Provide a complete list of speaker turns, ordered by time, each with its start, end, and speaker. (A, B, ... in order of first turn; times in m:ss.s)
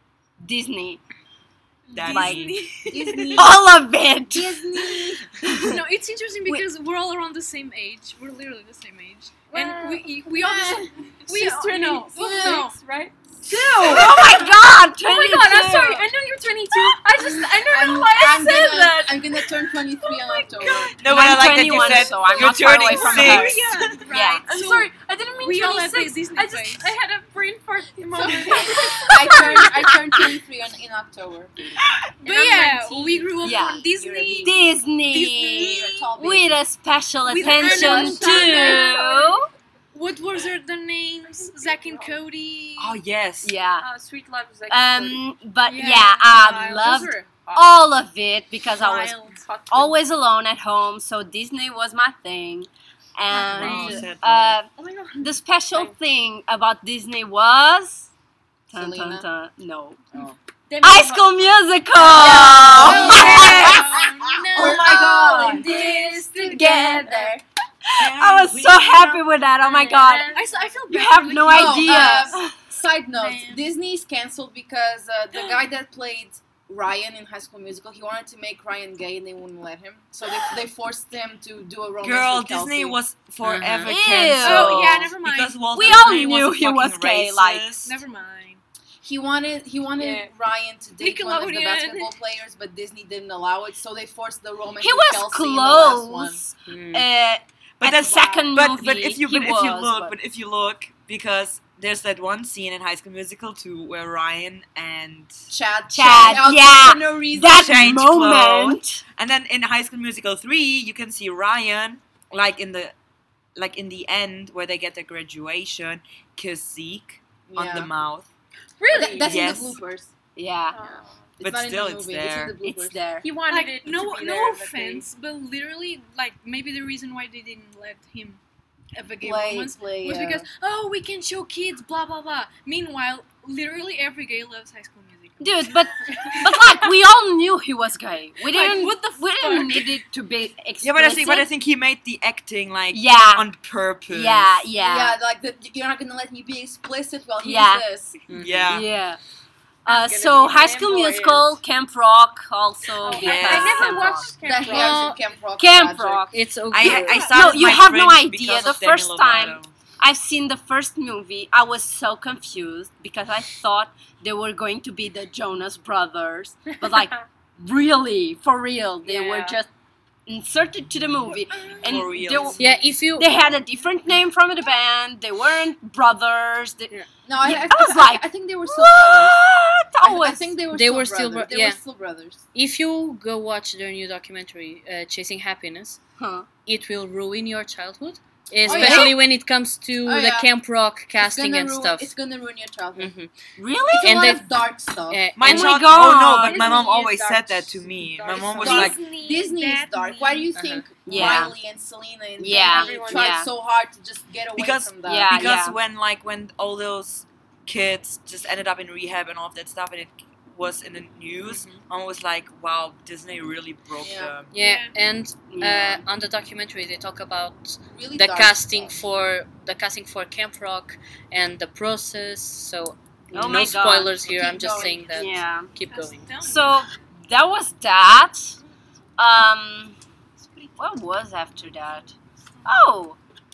0:00.4-0:01.0 A
0:01.9-0:02.2 B
0:01.9-0:02.6 C
0:02.1-0:03.5 D
0:02.1-0:05.9 A
0:02.9-0:03.6 E
0:04.3-0:05.3 E
0:05.6-0:12.8 D
0:09.5-0:14.5 B
0:12.2-0:12.6 E
0:13.4-0:14.5 D
0:13.8-0:16.1 A
0:15.0-0:19.5 B
0:17.2-0:17.4 D
0:17.7-0:21.0 E
0:20.0-0:21.3 B
0:20.6-0:20.9 D
0:21.0-0:24.0 C
0:21.0-0:24.4 A
0:21.8-0:26.9 D
0:24.4-0:29.7 B
0:28.1-0:31.6 E
0:28.3-0:29.7 D
0:29.7-0:30.3 A
0:32.2-0:33.5 B
0:32.2-0:36.1 D
0:33.4-0:33.9 A
0:33.9-0:34.7 E
0:34.4-0:39.5 A
0:35.6-0:36.6 E
0:37.3-0:39.2 D
0:37.4-0:38.8 E
0:37.5-0:39.3 B
0:39.9-0:43.0 D
0:41.3-0:42.2 B
0:42.8-0:43.5 C
0:43.4-0:43.9 A
0:43.8-0:45.3 B
0:44.7-0:58.1 A
0:45.6-0:47.2 D
0:46.3-0:47.8 B
0:48.7-0:49.4 D
0:49.2-0:50.0 B
0:53.3-0:54.2 D
0:53.5-0:54.6 C
0:54.8-0:56.0 B
0:58.7-1:00.0 A
0:58.7-0:59.3 E
1:00.7-1:03.8 B
1:00.8-1:04.0 A
1:02.0-1:04.0 E
1:02.2-1:07.4 D
1:02.3-1:03.0 C
1:04.5-1:12.6 A
1:04.6-1:05.7 E
1:08.0-1:09.3 C
1:09.6-1:10.8 B
1:10.3-1:12.4 D
1:11.5-1:23.0 E
1:13.2-1:13.7 D
1:22.0-1:28.0 C
1:23.4-1:24.0 F
1:23.9-1:25.1 A
1:24.4-1:26.3 D
1:25.7-1:27.8 A
1:27.8-1:28.6 D
1:29.0-1:36.4 E
1:30.0-1:30.3 B
1:31.0-1:32.1 D
1:34.8-1:40.2 A
1:36.7-1:37.1 F
1:37.8-1:45.4 C
1:45.5-1:47.9 E
1:45.9-1:49.0 A
1:46.0-1:46.4 C
1:47.6-1:52.9 C
1:53.6-1:58.3 C
1:57.5-1:57.9 E
1:58.8-1:59.5 B
1:58.9-2:00.1 E
1:59.2-1:59.8 C
1:59.3-1:59.7 A
2:00.4-2:00.8 A
2:00.7-2:01.3 B
2:01.4-2:03.0 E
2:01.4-2:02.6 C
2:02.6-2:03.3 A
2:03.2-2:05.1 B
2:03.5-2:08.4 D
2:09.0-2:16.7 D
2:09.2-2:10.5 E
2:15.4-2:21.5 A
2:18.4-2:19.9 D
2:20.8-2:24.7 C
2:22.9-2:23.5 A
2:24.1-2:25.2 A
2:24.8-2:28.2 E
2:27.4-2:27.9 A
2:28.3-2:28.8 F
2:28.4-2:28.9 C
2:28.7-2:29.2 A
2:29.8-2:34.4 A
2:29.9-2:31.6 B
2:33.0-2:35.2 B
2:33.2-2:34.3 C
2:34.4-2:36.2 E
2:34.7-2:35.2 F
2:35.6-2:49.7 A
2:36.3-2:37.3 F
2:36.7-2:39.8 C
2:37.1-2:37.5 B
2:46.7-2:47.2 B
2:49.0-2:49.6 B
2:50.3-3:00.5 A
2:51.8-2:52.6 C
2:52.6-2:53.5 F
2:57.3-2:59.4 E
3:00.0-3:02.4 E
3:00.7-3:01.8 F
3:02.5-3:06.0 F
3:06.2-3:06.5 A
3:06.7-3:12.1 F
3:08.6-3:09.2 E
3:08.7-3:09.2 A
3:10.0-3:10.5 E
3:11.2-3:13.1 E
3:13.0-3:13.3 F
3:13.6-3:14.4 A
3:13.9-3:15.2 E
3:14.0-3:14.4 F
3:15.1-3:16.1 F
3:15.4-3:19.0 C
3:15.4-3:16.9 A
3:16.2-3:19.4 B
3:18.6-3:25.5 E
3:18.8-3:20.5 D
3:20.6-3:20.9 F
3:21.1-3:21.6 A
3:22.4-3:23.5 A
3:22.5-3:23.4 B
3:24.6-3:34.5 C
3:25.0-3:25.8 A
3:31.4-3:31.8 F
3:34.0-3:34.3 E
3:34.5-3:46.4 F
3:34.5-3:35.0 D
3:35.5-3:36.0 A
3:37.9-3:39.0 E
3:43.3-3:44.2 A
3:44.2-3:45.1 E
3:45.1-3:45.7 A
3:45.9-3:46.8 D
3:46.4-3:48.6 A
3:49.2-3:50.0 A
3:50.8-3:52.1 A
3:52.6-3:53.2 A